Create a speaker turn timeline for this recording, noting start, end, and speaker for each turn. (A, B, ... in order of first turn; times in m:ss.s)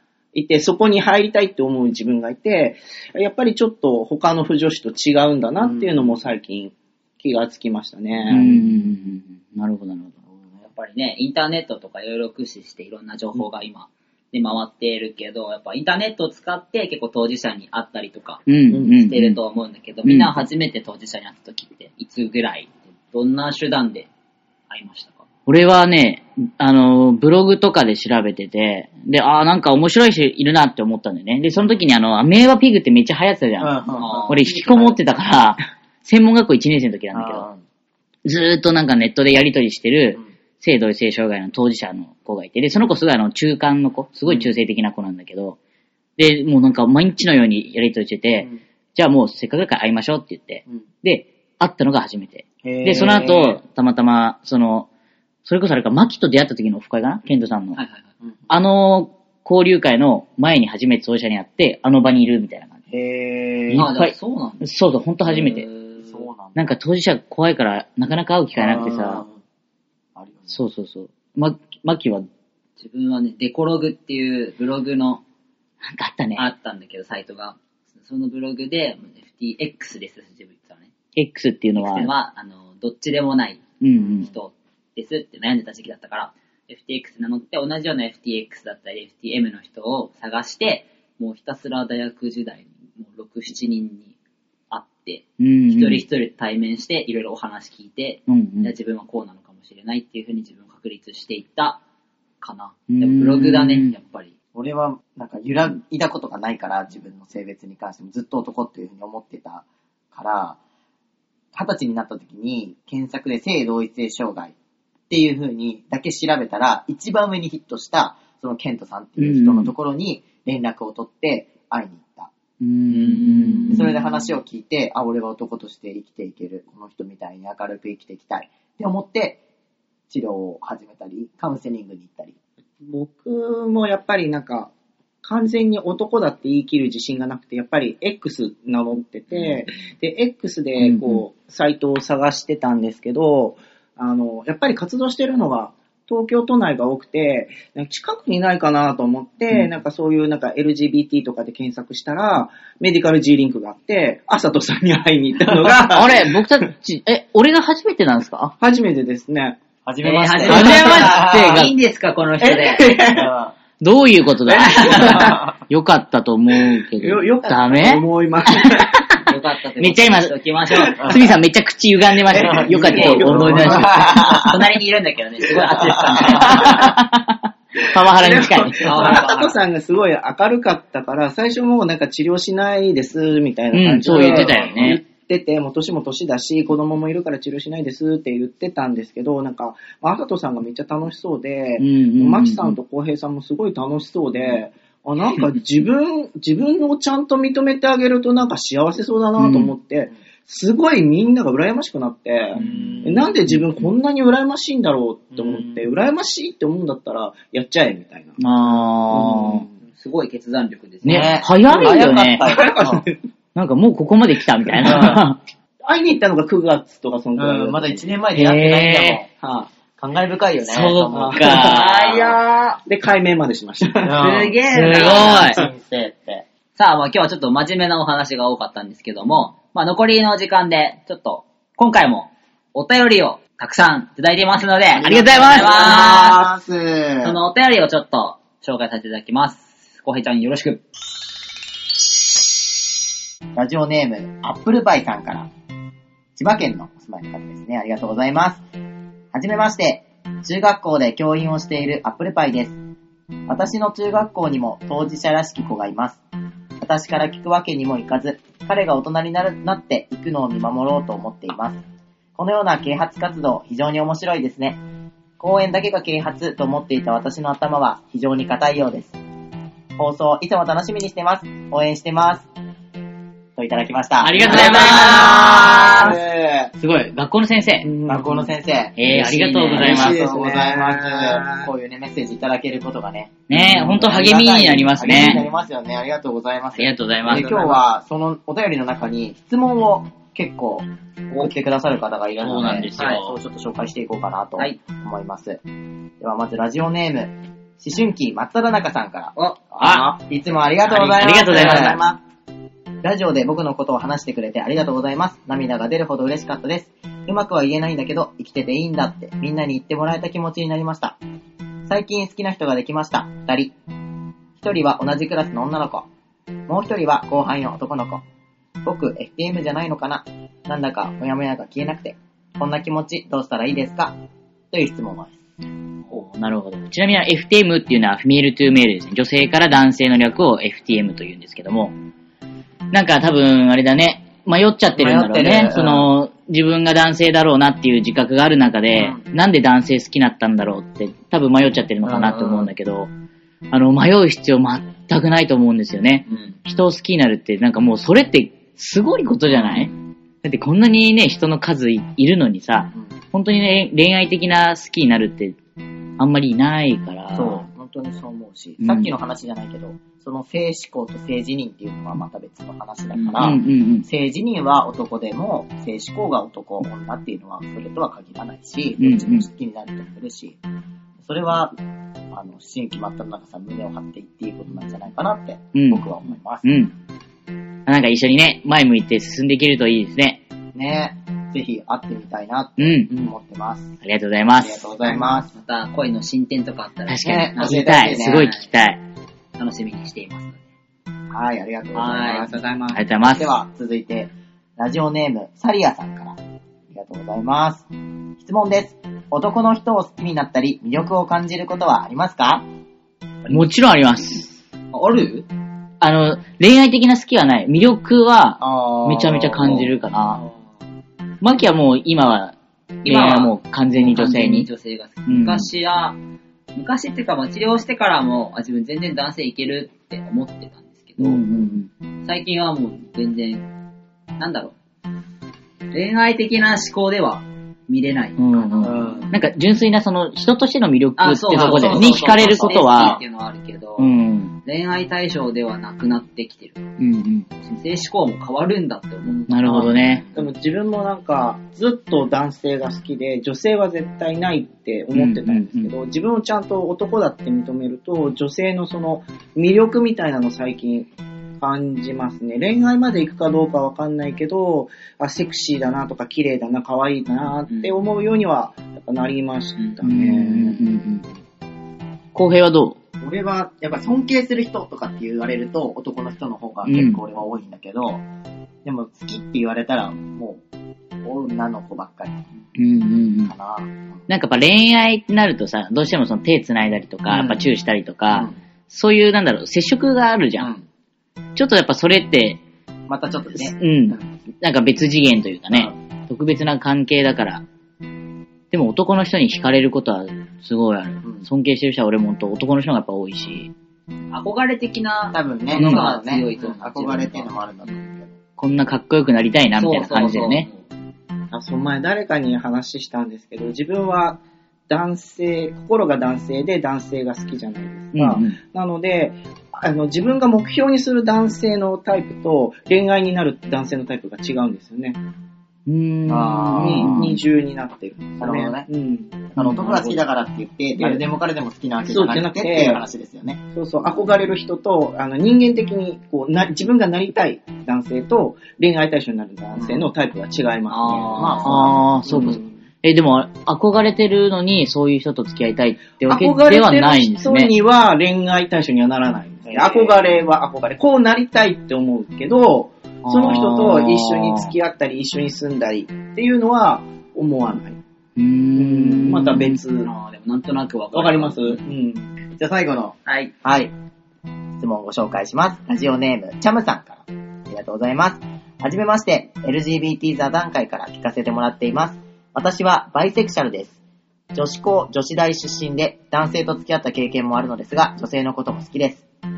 0:00.3-0:08.5 A
0:05.6-0:06.1 B
0:08.2-0:08.9 B
0:08.3-0:10.1 C
0:10.3-0:10.6 B
0:10.6-0:24.1 D
0:18.5-0:19.4 C
0:20.0-0:20.3 C
0:24.7-0:25.2 D
0:25.5-0:33.8 C
0:33.6-0:34.9 B
0:34.0-0:34.7 D
0:34.3-0:37.4 C
0:37.1-0:37.6 B
0:38.2-0:45.6 C
0:46.2-0:54.9 C
0:52.6-0:53.6 B
0:55.4-0:57.8 C
0:57.7-0:58.1 D
0:58.2-0:58.5 B
0:58.5-1:02.8 C
1:02.9-1:03.8 B
1:03.7-1:05.7 C
1:03.7-1:04.6 D
1:05.2-1:06.2 D
1:06.0-1:06.6 B
1:06.5-1:09.2 C
1:08.5-1:09.4 B
1:10.2-1:10.6 B
1:10.5-1:12.3 C
1:12.8-1:15.2 D
1:15.8-1:16.4 C
1:16.4-1:20.9 D
1:21.2-1:22.1 C
1:21.8-1:34.1 D
1:23.8-1:24.3 C
1:34.7-1:41.8 D
1:35.4-1:36.0 C
1:38.3-1:38.7 C
1:42.4-1:44.3 D
1:42.9-1:43.9 C
1:44.5-1:50.6 B
1:51.5-1:54.5 B
1:55.1-2:02.3 B
1:59.2-1:59.7 C
2:02.6-2:03.9 C
2:02.9-2:03.9 D
2:03.7-2:09.4 B
2:10.1-2:12.3 B
2:12.8-2:14.7 A
2:15.2-2:36.4 A
2:20.8-2:21.2 C
2:35.7-2:38.5 C
2:38.6-2:39.6 A
2:39.8-2:41.7 B
2:40.0-2:42.9 D
2:40.5-2:41.7 C
2:42.4-2:43.3 A
2:43.1-2:43.5 B
2:43.8-2:49.0 C
2:44.4-2:45.5 A
2:47.0-2:49.0 A
2:49.2-2:51.1 D
2:49.8-2:54.1 C
2:51.0-2:51.3 B
2:52.3-2:54.4 A
2:52.4-2:54.6 B
2:52.8-2:53.3 D
2:54.0-2:56.9 D
2:55.9-2:56.7 B
2:56.3-2:59.2 C
2:56.6-2:56.9 A
2:58.0-3:28.4 A
2:58.8-2:59.6 D
3:03.7-3:05.0 C
3:04.1-3:04.7 B
3:11.8-3:12.8 C
3:19.4-3:19.7 C
3:22.6-3:23.2 B
3:22.6-3:23.0 D
3:23.5-3:23.9 C
3:25.4-3:25.7 B
3:28.4-3:29.6 C
3:29.1-3:29.8 A
3:29.9-3:31.5 D
3:31.0-3:33.0 B
3:31.0-3:32.7 C
3:31.8-3:33.1 A
3:33.5-3:35.4 C
3:34.8-3:35.2 B
3:34.8-3:35.1 A
3:35.8-3:38.0 A
3:37.4-3:39.3 B
3:38.3-3:39.2 C
3:39.4-3:39.7 A
3:40.0-3:41.7 B
3:40.6-3:42.2 C
3:41.1-3:44.3 A
3:41.6-3:42.4 D
3:44.0-3:46.4 B
3:44.2-3:45.5 D
3:44.7-3:45.6 C
3:46.8-3:56.4 D
3:55.0-3:57.4 B
3:55.0-3:55.8 C
3:57.2-4:00.8 D
4:03.5-4:05.5 B
4:06.4-4:08.6 B
4:09.3-4:12.8 B
4:13.5-4:16.2 B
4:16.8-4:21.8 B
4:22.4-4:24.8 B
4:25.4-4:29.2 B
4:30.0-4:32.5 B
4:33.6-4:36.7 B
4:34.2-4:36.2 C
4:34.5-4:36.3 A
4:36.8-4:37.9 C
4:37.8-4:38.5 A
4:38.0-4:55.6 B
4:39.0-4:40.2 C
4:39.7-4:41.7 A
4:43.5-4:45.4 C
4:46.8-4:47.5 C
4:47.3-4:47.8 A
4:52.4-4:53.3 C
4:56.2-5:02.2 B
4:59.8-5:00.2 C
5:00.9-5:02.0 C
5:03.0-5:11.2 B
5:11.9-5:13.7 B
5:14.6-5:16.1 B
5:16.7-5:18.2 B
5:18.8-5:24.2 B
5:24.7-5:25.4 B
5:26.1-5:31.9 C
5:32.9-5:43.1 C
5:34.9-5:36.1 B
5:38.9-5:39.2 B
5:42.0-5:42.7 B
5:43.7-5:49.9 C
5:46.3-5:46.6 B
5:50.4-5:55.6 C
5:56.2-5:57.6 C
5:57.3-6:10.6 B
5:58.8-5:59.1 C
6:03.4-6:04.0 C
6:09.0-6:09.4 C
6:11.2-6:11.7 B
6:12.3-6:16.7 B
6:15.7-6:16.0 C
6:16.6-6:16.9 C
6:17.9-6:20.4 C
6:20.7-6:23.9 B
6:22.8-6:23.1 C
6:24.0-6:24.9 C
6:24.6-6:25.5 B
6:25.1-6:28.7 D
6:27.1-6:29.0 C
6:27.2-6:28.5 B
6:29.6-6:30.6 D
6:31.3-6:36.4 B
6:31.9-6:32.5 D
6:32.9-6:33.5 C
6:36.9-6:37.9 B
6:38.4-6:42.6 B
6:43.4-6:43.7 D
6:43.5-6:44.6 C
6:44.9-6:45.4 D
6:46.0-6:50.4 C
6:48.6-6:49.8 B
6:51.4-6:54.7 C
6:53.0-6:56.2 D
6:55.3-6:55.7 C
6:56.7-7:01.4 D
7:01.2-7:01.9 C
7:02.2-7:03.7 D
7:04.4-7:04.8 D
7:05.9-7:09.2 D
7:08.4-7:13.2 C
7:08.8-7:09.4 B
7:11.2-7:16.8 D
7:11.5-7:13.2 B
7:14.0-7:14.5 C
7:17.0-7:17.5 C
7:17.6-7:19.9 D
7:19.5-7:20.2 C
7:19.6-7:20.4 B
7:20.3-7:31.1 A
7:25.1-7:25.9 C
7:31.6-7:40.8 A
7:37.7-7:38.0 D
7:40.0-7:41.2 C
7:42.3-7:43.0 C
7:43.2-7:48.2 B
7:46.8-7:47.2 C
7:48.8-7:50.6 B
7:51.2-7:52.4 B
7:52.8-7:53.5 C
7:53.4-7:54.2 B
7:54.3-8:00.7 C
7:57.3-7:57.7 B
7:58.3-7:58.6 B
8:00.6-8:00.8 B
8:01.6-8:02.6 C
8:03.1-8:04.2 B
8:03.6-8:07.6 C
8:08.7-8:13.7 C
8:14.3-8:17.5 D
8:15.3-8:18.4 B
8:15.7-8:16.0 C
8:18.6-8:20.7 C
8:19.8-8:20.9 D
8:21.5-8:35.2 A
8:28.1-8:28.6 C
8:35.9-8:37.4 C
8:36.3-8:37.3 B
8:36.8-8:39.5 A
8:38.4-8:38.9 B
8:39.6-8:40.1 C
8:39.6-8:44.2 B
8:42.1-8:43.0 A
8:43.7-8:52.7 A
8:49.8-8:50.1 B
8:50.9-8:51.9 D
8:51.3-8:52.6 B
8:51.6-8:57.7 C
8:56.3-9:08.0 A
8:59.7-9:00.3 B
9:03.2-9:04.7 C
9:08.4-9:09.8 C
9:08.7-9:10.1 A
9:10.0-9:11.8 D
9:11.1-9:12.3 A
9:12.6-9:13.9 B
9:13.2-9:13.5 D
9:14.8-9:24.0 B
9:24.5-9:29.2 B